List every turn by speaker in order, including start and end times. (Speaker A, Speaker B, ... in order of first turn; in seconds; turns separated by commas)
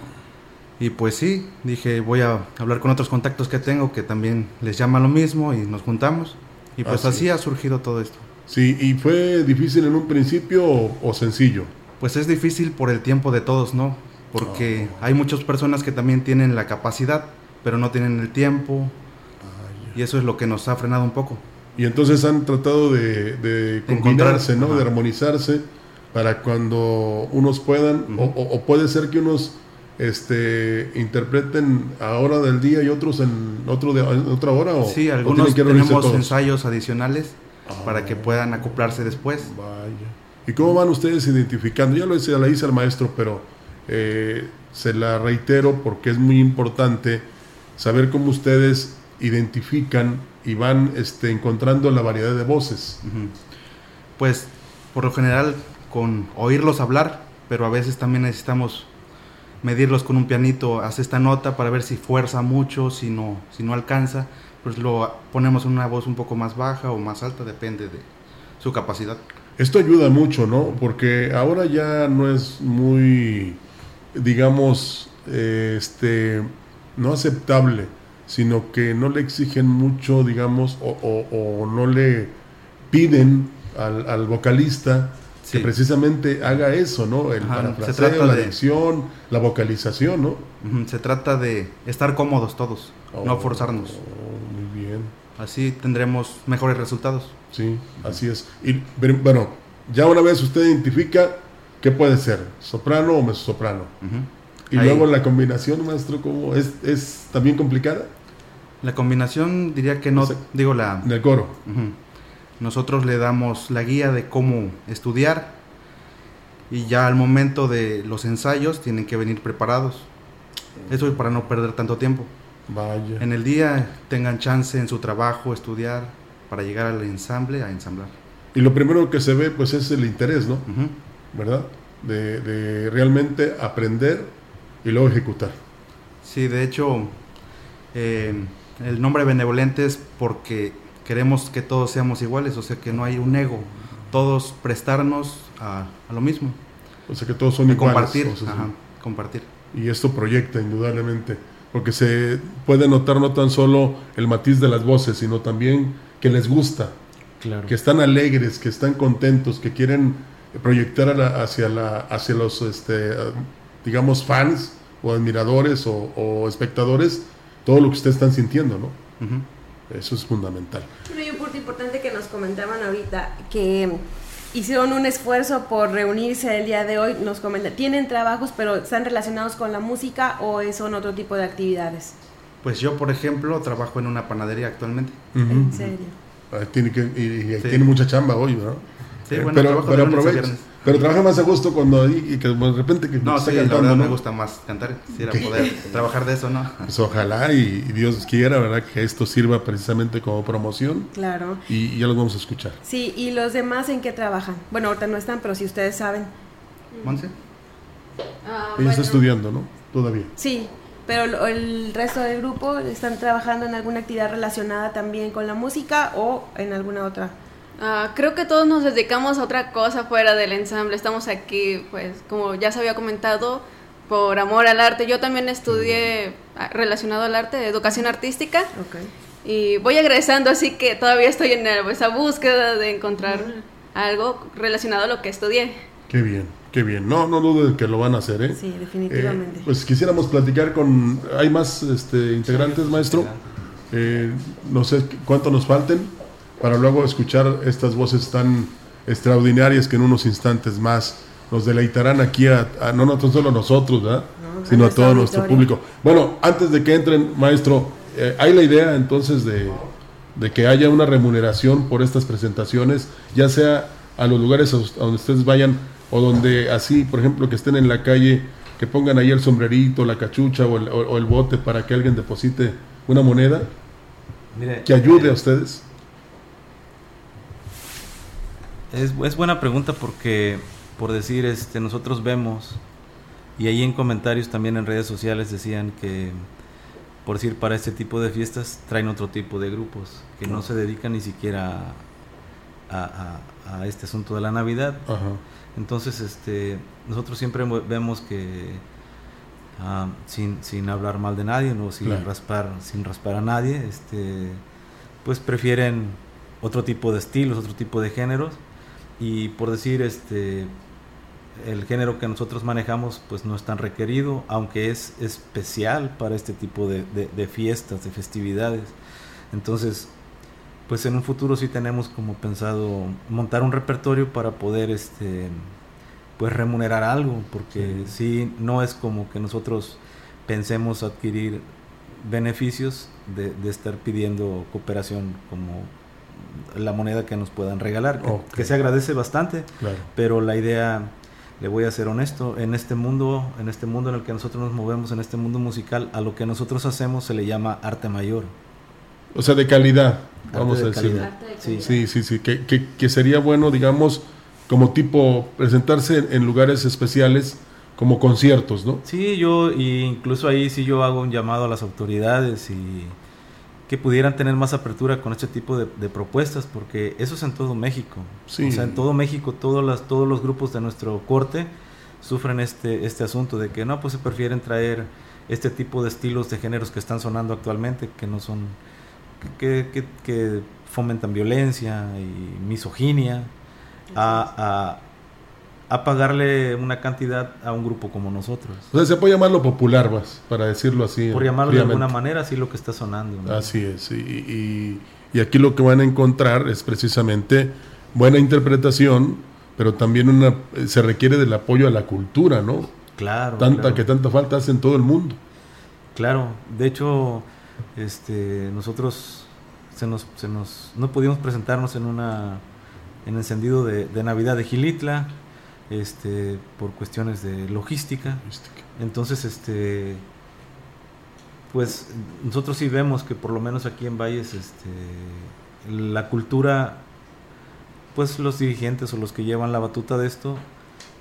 Speaker A: 0.8-8.3, Speaker B: 6.8-7.3, Speaker B: 8.5-11.7, Speaker A: 12.0-18.9, Speaker B: 14.4-15.1, Speaker B: 19.4-20.0, Speaker A: 19.9-21.4, Speaker B: 21.8-36.3, Speaker A: 23.9-24.9, Speaker A: 34.8-39.5, Speaker B: 37.6-38.7, Speaker B: 39.4-53.0, Speaker A: 53.0-53.4, Speaker A: 54.2-58.9, Speaker A: 59.6-68.1, Speaker A: 68.6-69.2, Speaker B: 69.6-73.6, Speaker B: 74.1-82.4, Speaker B: 82.9-90.5, Speaker A: 85.4-85.7, Speaker A: 87.4-88.5, Speaker A: 90.6-94.0, Speaker B: 93.1-95.1, Speaker A: 95.4-97.4, Speaker B: 97.5-104.0, Speaker A: 104.0-105.1, Speaker B: 104.7-108.1, Speaker A: 108.8-111.1, Speaker B: 110.2-111.6, Speaker A: 111.6-112.0, Speaker A: 112.6-115.6, Speaker A: 116.7-120.1, Speaker B: 120.8-121.2, Speaker A: 120.9-122.3, Speaker B: 122.7-123.2, Speaker A: 123.2-128.1, Speaker B: 128.5-130.7, Speaker A: 130.7-130.9, Speaker B: 131.3-135.6, Speaker A: 136.2-137.2, Speaker A: 137.9-146.6, Speaker B: 147.1-148.7, Speaker A: 147.7-149.5, Speaker B: 149.7-156.9, Speaker C: 157.4-157.8, Speaker B: 157.7-169.0, Speaker A: 169.2-169.4, Speaker B: 169.9-170.9, Speaker D: 171.1-182.1, Speaker A: 182.6-185.3, Speaker B: 185.3-185.9, Speaker D: 185.4-186.1, Speaker B: 186.5-194.2, Speaker A: 187.6-187.9, Speaker A: 189.3-191.0, Speaker A: 193.2-196.9, Speaker B: 195.3-195.9, Speaker B: 196.8-201.1, Speaker D: 201.1-201.6, Speaker B: 201.7-202.8, Speaker D: 202.8-206.3, Speaker A: 207.0-207.3, Speaker E: 208.4-209.3, Speaker B: 208.8-210.3, Speaker D: 210.4-217.3, Speaker E: 217.8-228.7, Speaker D: 228.7-229.1, Speaker E: 229.4-235.8, Speaker B: 236.1-243.3, Speaker D: 238.5-239.7, Speaker C: 242.5-243.5, Speaker B: 243.9-273.7, Speaker D: 254.4-255.7, Speaker C: 274.5-275.4, Speaker B: 274.9-275.9, Speaker C: 278.9-282.8, Speaker C: 283.6-286.4, Speaker C: 287.2-292.0, Speaker C: 292.9-295.1, Speaker B: 295.1-295.4, Speaker C: 295.8-298.8, Speaker C: 299.8-304.6, Speaker C: 305.2-308.6, Speaker C: 309.2-310.7, Speaker C: 311.6-318.9, Speaker C: 319.5-320.1, Speaker C: 320.9-325.7, Speaker C: 326.4-331.6, Speaker B: 327.8-328.1, Speaker C: 332.2-348.5, Speaker B: 338.2-338.8, Speaker B: 339.8-340.1, Speaker B: 349.3-359.0, Speaker C: 350.5-351.9, Speaker D: 351.2-351.9, Speaker C: 359.0-363.1, Speaker C: 363.9-378.8, Speaker B: 368.5-369.0, Speaker C: 379.4-383.5, Speaker D: 384.1-384.4, Speaker C: 384.1-385.1, Speaker C: 385.9-388.9, Speaker B: 388.9-392.1, Speaker C: 391.3-393.7, Speaker B: 393.4-402.9, Speaker C: 403.1-404.1, Speaker B: 403.6-405.4, Speaker C: 406.1-412.6, Speaker C: 413.2-415.4, Speaker C: 415.9-418.4, Speaker B: 418.4-418.8, Speaker C: 418.9-420.2, Speaker C: 421.7-427.0, Speaker C: 428.1-430.6